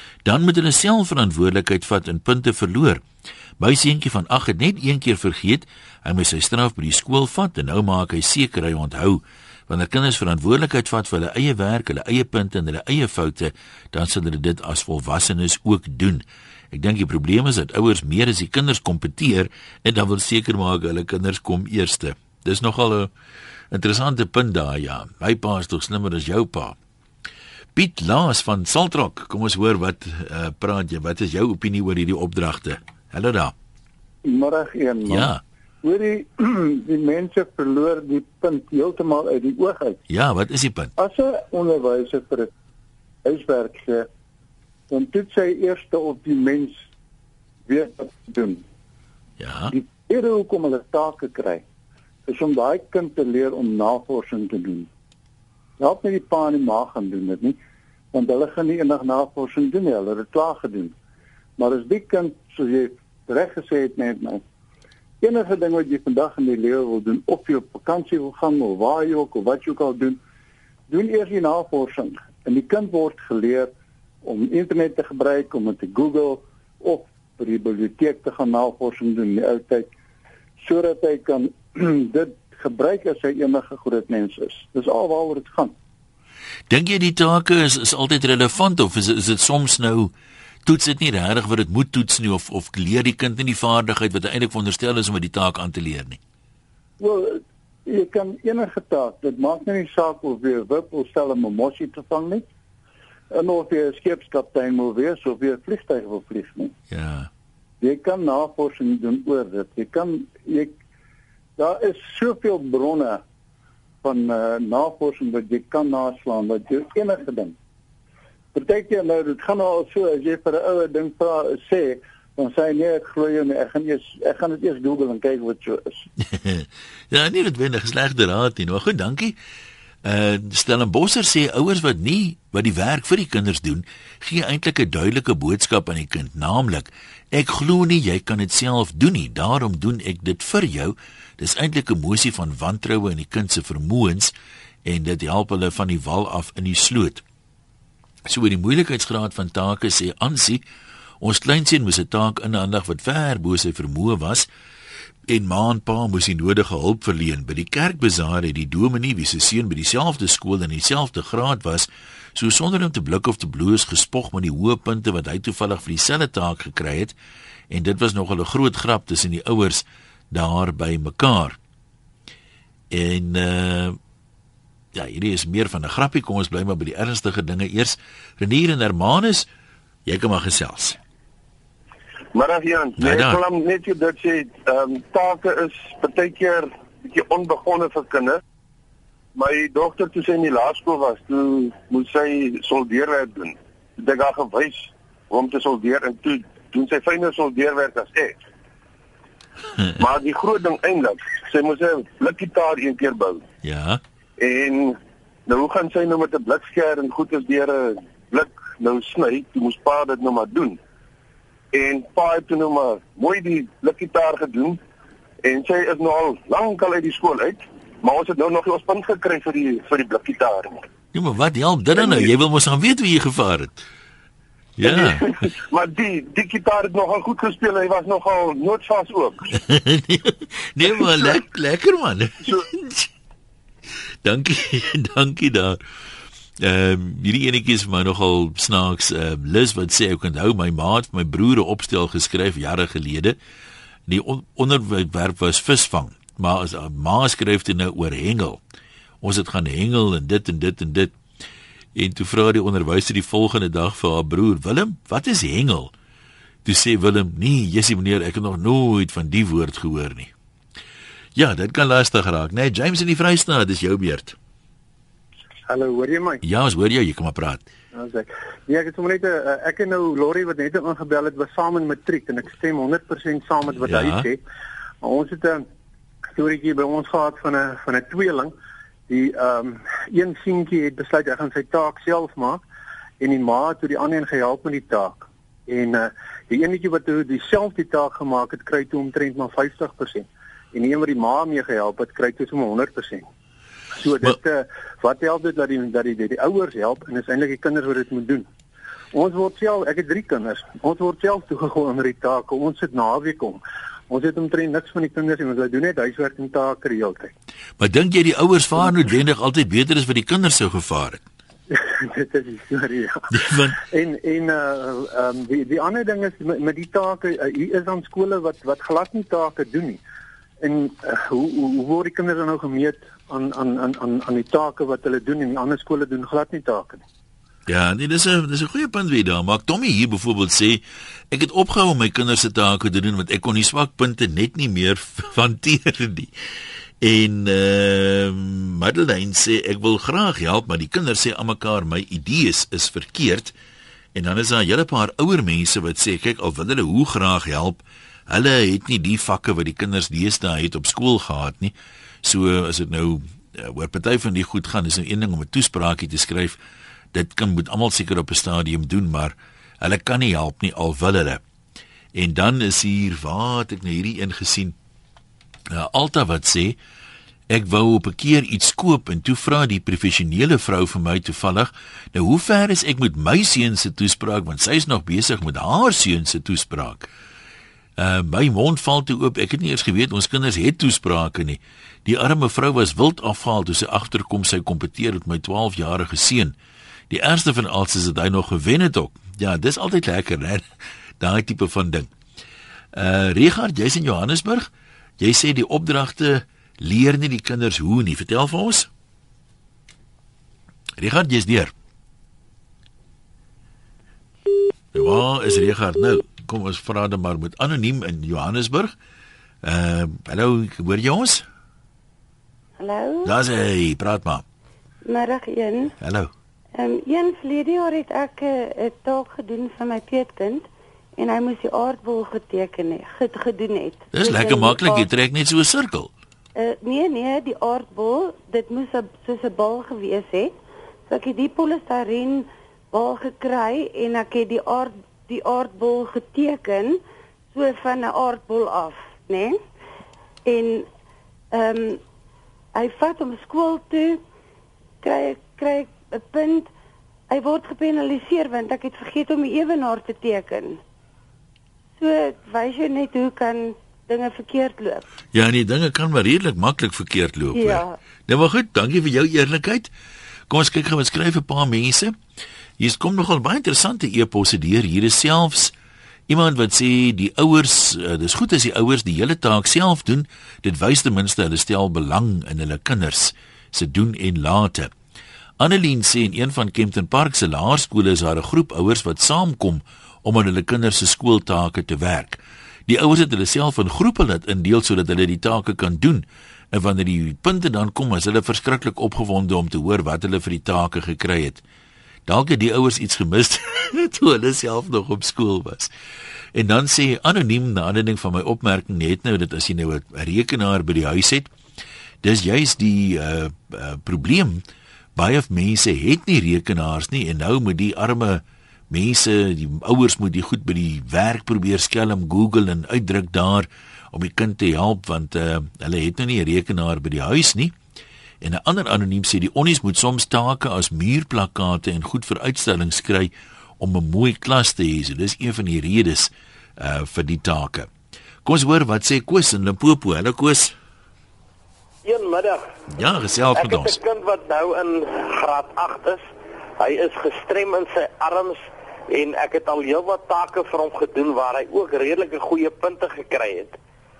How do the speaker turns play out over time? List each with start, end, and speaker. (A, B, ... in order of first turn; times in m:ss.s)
0:00.2-0:03.0 A
0:03.6-0:23.1 A
0:23.7-0:26.8 A
0:27.7-0:33.5 A
0:34.2-0:40.0 B
0:35.1-0:35.4 A
0:40.1-0:40.9 A
0:41.0-0:42.5 B
0:43.2-0:44.1 B
0:44.9-0:46.9 B
0:47.7-0:48.6 B
0:49.4-0:49.7 A
0:49.7-0:51.6 B
0:52.2-0:54.9 B
0:55.8-0:57.6 B
0:58.1-1:00.9 B
1:01.6-1:04.4 B
1:05.2-1:10.2 B
1:10.9-1:13.7 B
1:14.2-1:19.9 B
1:20.6-1:25.7 B
1:26.7-1:30.1 A
1:30.6-1:36.2 A
1:37.0-1:42.5 B
1:43.3-1:46.7 B
1:46.9-1:47.3 A
1:47.8-1:50.8 B
1:51.6-1:53.2 B
1:54.0-1:57.5 B
1:58.5-2:06.0 B
2:06.2-2:09.3 A
2:10.0-2:24.3 A
2:24.8-2:27.2 A
2:28.2-2:30.6 A
2:31.2-2:34.5 A
2:35.3-2:47.1 A
2:47.7-2:51.6 A
2:52.9-2:54.0 A
2:54.9-2:59.5 A
3:00.0-3:01.0 A
3:02.3-3:08.4 C
3:03.0-3:03.4 A
3:09.4-3:18.4 C
3:20.0-3:23.4 C
3:23.6-3:24.0 A
3:24.4-3:30.8 C
3:31.7-3:34.8 C
3:35.4-3:40.8 C
3:41.1-3:43.8 A
3:42.0-3:42.3 C
3:44.8-3:45.2 A
3:44.8-3:49.4 C
3:49.5-3:53.1 A
3:51.0-3:51.3 C
3:54.2-3:55.8 A
3:56.6-4:03.4 A
4:04.1-4:08.6 A
4:09.2-4:11.1 A
4:12.0-4:15.9 A
4:16.6-4:20.3 A
4:21.4-4:24.4 A
4:25.7-4:26.4 D
4:26.4-4:27.7 A
4:27.9-4:34.4 D
4:33.8-4:34.3 A
4:35.0-4:35.6 D
4:36.3-4:38.5 D
4:39.1-4:42.6 D
4:43.2-4:53.2 D
4:53.9-4:58.5 D
4:59.1-5:07.3 D
5:07.8-5:11.2 A
5:11.7-5:13.2 D
5:13.3-5:13.8 A
5:13.8-5:20.0 D
5:20.6-5:27.0 D
5:27.7-5:36.3 A
5:37.0-5:43.5 A
5:44.1-5:56.6 A
5:57.1-6:01.4 A
6:02.1-6:04.7 A
6:05.7-6:06.8 A
6:07.5-6:17.1 A
6:18.0-6:26.5 A
6:27.1-6:30.6 A
6:31.2-6:32.1 A
6:32.9-6:38.9 A
6:41.0-6:41.7 A
6:44.9-6:48.9 A
6:49.6-6:51.4 A
6:52.8-6:53.3 E
6:53.2-6:54.4 A
6:55.0-6:55.9 E
6:56.0-6:56.3 A
6:56.8-7:05.1 E
7:04.1-7:06.1 A
7:06.6-7:10.5 E
7:11.1-7:17.0 E
7:17.5-7:19.6 E
7:20.5-7:20.9 E
7:21.5-7:22.0 E
7:22.7-7:24.2 E
7:25.0-7:26.7 E
7:27.3-7:30.8 E
7:32.0-7:35.0 E
7:35.3-7:39.9 A
7:37.5-7:38.0 E
7:40.5-7:42.1 A
7:42.8-7:45.7 A
7:46.3-7:54.9 A
7:55.6-8:11.6 A
8:12.3-8:15.9 A
8:16.5-8:21.5 A
8:22.2-8:24.6 A
8:25.2-8:37.8 A
8:38.4-8:47.9 A
8:48.4-8:50.7 A
8:52.0-8:52.7 F
8:52.9-8:54.0 A
8:53.5-8:56.2 F
8:56.8-9:03.8 F